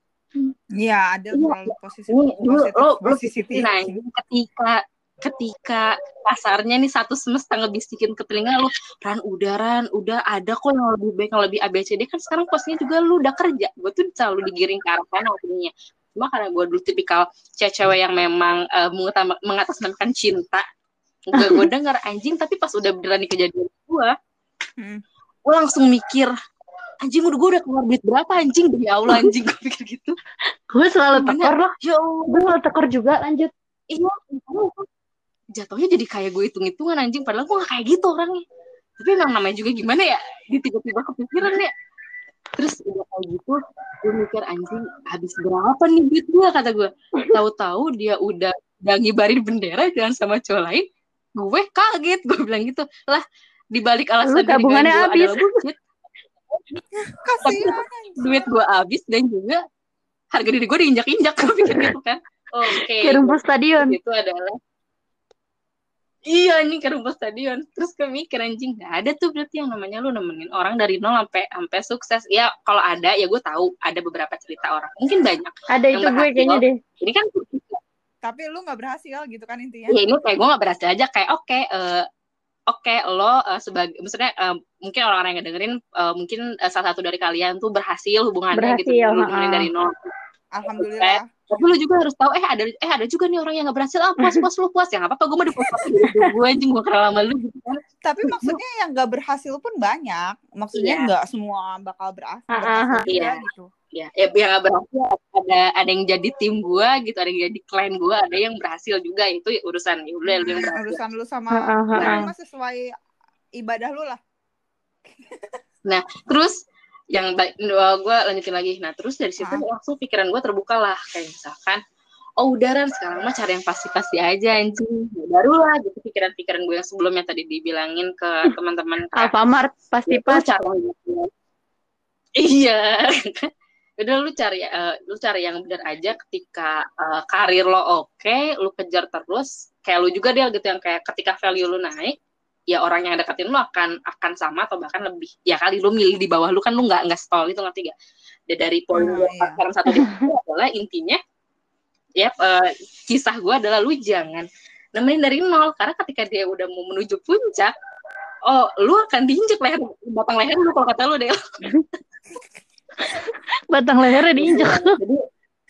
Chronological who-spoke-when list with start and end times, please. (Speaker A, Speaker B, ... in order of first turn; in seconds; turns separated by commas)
Speaker A: 0.8-4.0, Speaker B: 1.3-20.6, Speaker B: 21.3-24.1, Speaker C: 21.3-21.7, Speaker A: 24.8-25.0, Speaker B: 25.4-26.3, Speaker B: 27.0-30.2, Speaker C: 30.7-31.7, Speaker B: 31.1-32.5, Speaker C: 32.3-33.5, Speaker B: 33.9-34.9, Speaker B: 35.5-38.4, Speaker B: 39.0-41.7, Speaker B: 42.5-50.8, Speaker B: 51.4-55.8, Speaker C: 54.2-55.6, Speaker A: 57.0-58.5, Speaker B: 57.4-59.6, Speaker B: 60.3-64.6, Speaker C: 61.6-61.9, Speaker C: 62.7-64.0, Speaker B: 66.3-77.8, Speaker C: 75.7-76.8, Speaker A: 78.2-80.0, Speaker B: 79.9-82.0, Speaker B: 82.7-90.1, Speaker C: 88.5-89.7, Speaker A: 90.5-91.8, Speaker B: 90.8-97.8, Speaker C: 94.2-94.5, Speaker A: 98.0-103.7, Speaker C: 98.2-98.6, Speaker B: 100.7-101.1, Speaker C: 102.5-103.0, Speaker B: 103.1-111.0, Speaker A: 110.3-112.9, Speaker C: 111.5-112.3, Speaker A: 113.6-114.2, Speaker A: 115.3-115.5, Speaker B: 115.8-116.5, Speaker B: 117.1-121.8, Speaker B: 122.4-129.3, Speaker C: 129.2-130.5, Speaker B: 130.1-131.3, Speaker B: 132.4-142.2, Speaker B: 142.7-147.9, Speaker B: 148.5-151.2, Speaker A: 148.9-149.6, Speaker C: 149.9-150.2, Speaker B: 152.2-157.7, Speaker B: 158.4-161.4, Speaker C: 163.1-165.0, Speaker B: 164.3-165.2